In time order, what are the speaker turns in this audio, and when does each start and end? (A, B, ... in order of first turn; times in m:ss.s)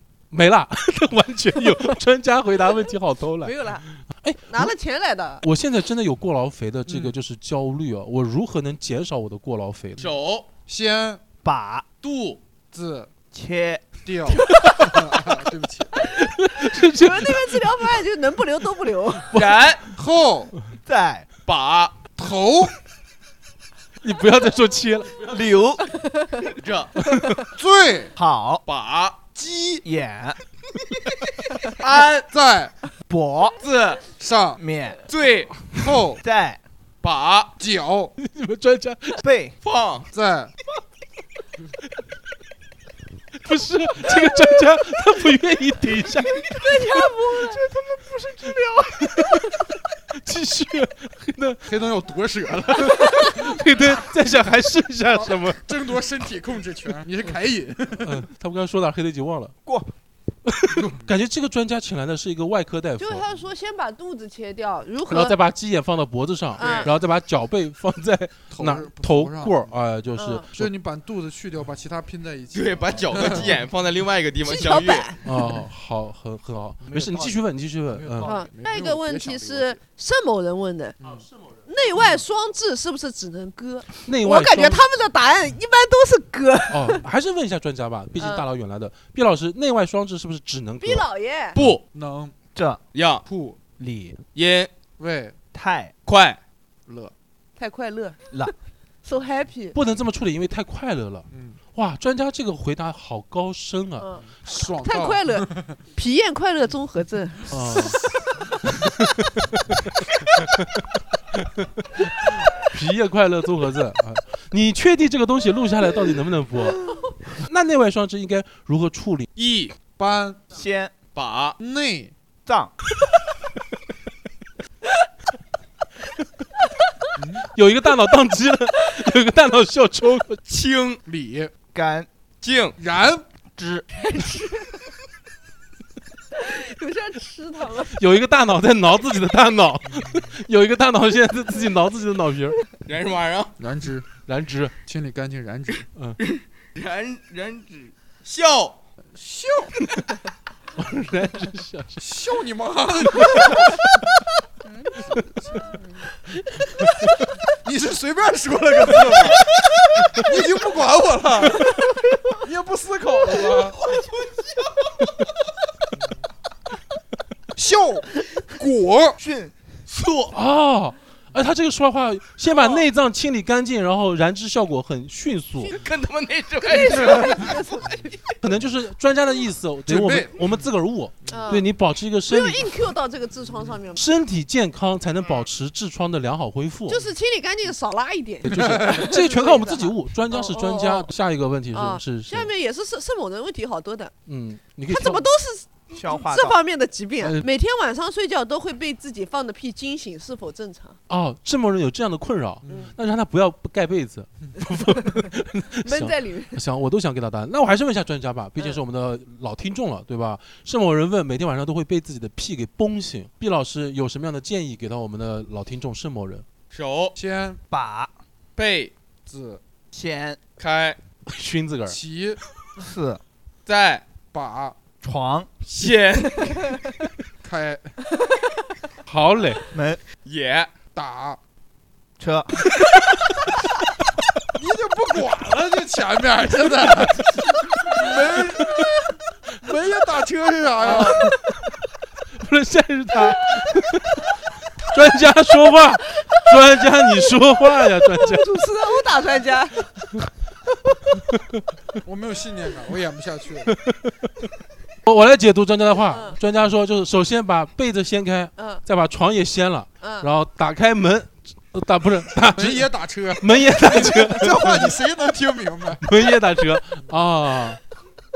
0:00.3-0:04.7 A
0:03.4-0:03.8 B
0:04.5-0:05.4 B
0:05.4-0:10.1 A
0:06.9-0:07.1 C
0:10.0-0:10.5 D
0:10.7-0:11.2 C
0:11.4-0:11.8 E
0:12.0-0:12.4 D
0:12.7-0:13.1 C
0:13.3-0:14.0 E
0:14.0-0:15.9 C
0:16.1-0:17.8 A
0:16.6-0:19.4 B
0:19.3-0:19.8 A
0:19.3-0:19.8 D
0:19.9-0:20.5 C
0:20.8-0:21.3 E
0:21.4-0:22.0 D
0:22.2-0:22.8 C
0:24.0-0:25.4 A
0:25.2-0:25.8 E
0:26.0-0:26.4 B
0:26.6-0:26.9 D
0:27.5-0:28.1 C
0:28.2-0:28.6 E
0:28.7-0:29.2 D
0:29.3-0:29.8 C
0:29.8-0:30.4 E
0:31.8-0:32.3 D
0:32.3-0:32.7 C
0:33.1-0:33.6 E
0:33.6-0:34.0 D
0:34.2-0:34.6 C
0:34.6-0:35.0 E
0:35.1-0:35.6 D
0:35.7-0:36.2 C
0:36.2-0:36.6 E
0:37.0-0:37.6 D
0:37.6-0:38.1 C
0:38.2-0:39.2 A
0:39.2-0:39.5 E
0:39.6-0:40.1 D
0:40.1-0:40.5 C
0:43.4-0:47.1 A
0:46.6-0:49.6 B
0:50.1-0:51.6 A
0:51.6-0:53.3 C
0:52.7-0:55.9 A
0:55.1-0:58.2 C
0:58.0-0:59.5 A
1:00.4-1:03.2 A
1:00.7-1:01.1 C
1:03.0-1:05.4 B
1:05.1-1:10.7 A
1:06.6-1:06.9 B
1:06.6-1:06.9 D
1:08.5-1:09.7 C
1:10.2-1:10.4 B
1:10.6-1:13.6 C
1:12.5-1:15.1 D
1:13.2-1:13.6 A
1:14.4-1:15.2 B
1:15.2-1:18.3 A
1:16.8-1:19.8 C
1:18.2-1:21.0 B
1:21.0-1:21.3 C
1:21.7-1:27.0 B
1:24.0-1:24.8 A
1:26.7-1:31.0 A
1:28.2-1:28.4 B
1:30.8-1:31.6 B
1:31.6-1:31.8 D
1:31.9-1:32.3 C
1:32.5-1:32.8 E
1:32.9-1:33.2 D
1:33.2-1:33.6 C
1:33.8-1:34.2 E
1:34.3-1:34.7 D
1:35.0-1:35.4 C
1:35.5-1:35.9 E
1:36.0-1:36.4 D
1:36.9-1:37.1 C
1:37.6-1:38.2 B
1:39.0-1:39.8 B
1:39.7-1:44.1 A
1:41.3-1:41.6 C
1:44.0-1:44.2 B
1:44.4-1:45.8 C
1:44.8-1:48.0 B
1:47.5-1:48.0 A
1:48.7-1:49.8 A
1:50.4-1:59.3 A
1:59.4-1:59.7 D
2:00.0-2:00.4 C
2:00.5-2:00.9 E
2:01.1-2:01.6 D
2:01.6-2:02.1 C
2:02.4-2:02.7 E
2:07.2-2:07.4 C
2:07.5-2:10.4 A
2:10.5-2:11.0 D
2:11.0-2:11.5 C
2:11.7-2:12.1 E
2:12.4-2:12.8 D
2:12.8-2:13.2 C
2:13.6-2:13.8 E
2:13.9-2:14.8 B
2:16.4-2:18.0 B
2:17.8-2:22.6 A
2:19.9-2:20.3 C
2:22.8-2:23.6 D
2:23.6-2:24.0 C
2:24.3-2:24.7 A
2:24.8-2:25.9 C
2:26.2-2:28.8 D
2:29.1-2:29.8 C
2:30.8-2:32.0 A
2:32.0-2:33.7 C
2:33.1-2:34.0 A
2:35.0-2:35.8 C
2:36.8-2:37.1 A
2:37.6-2:39.5 C
2:40.1-2:41.7 C
2:42.4-2:43.8 C
2:47.6-2:49.2 C
2:49.2-2:49.5 E
2:49.9-2:50.3 D
2:50.3-2:55.7 A
2:52.5-2:52.9 B
2:55.7-2:57.5 D
2:56.6-2:58.2 B
2:58.4-3:02.7 A
2:59.9-3:00.6 C
3:01.3-3:01.6 C
3:01.3-3:01.7 B
3:02.3-3:04.0 B
3:04.0-3:07.0 A
3:06.9-3:11.1 B
3:08.4-3:12.5 A
3:08.5-3:09.1 C
3:11.7-3:14.1 B
3:14.2-3:15.3 A
3:14.9-3:21.0 B
3:15.9-3:16.6 E
3:17.2-3:17.5 A
3:21.1-3:36.4 A
3:22.6-3:22.9 C
3:25.8-3:26.6 B
3:36.7-3:37.2 D
3:37.2-3:37.6 C
3:37.7-3:38.1 E
3:38.6-3:38.9 D
3:39.3-3:39.6 C
3:39.9-3:40.4 E
3:40.6-3:41.0 D
3:41.2-3:42.0 A
3:41.9-3:42.4 C
3:42.8-3:43.2 E
3:43.6-3:44.0 D
3:44.3-3:44.8 C
3:45.0-3:45.5 E
3:45.6-3:46.6 D
3:47.4-3:48.0 C
3:49.1-3:49.6 A
3:49.7-3:50.0 E
3:50.2-3:50.7 D
3:50.9-3:51.4 C
3:52.2-3:52.6 E
3:54.6-3:59.0 C
3:59.6-4:01.3 C
4:00.8-4:01.3 B
4:00.8-4:01.3 A
4:02.4-4:08.5 A
4:08.0-4:10.1 B
4:11.2-4:11.6 A
4:12.0-4:13.7 C
4:13.7-4:14.5 A
4:15.0-4:25.0 A
4:16.1-4:16.4 B
4:18.6-4:18.8 B
4:20.0-4:20.3 B
4:22.5-4:26.0 C
4:26.0-4:27.8 A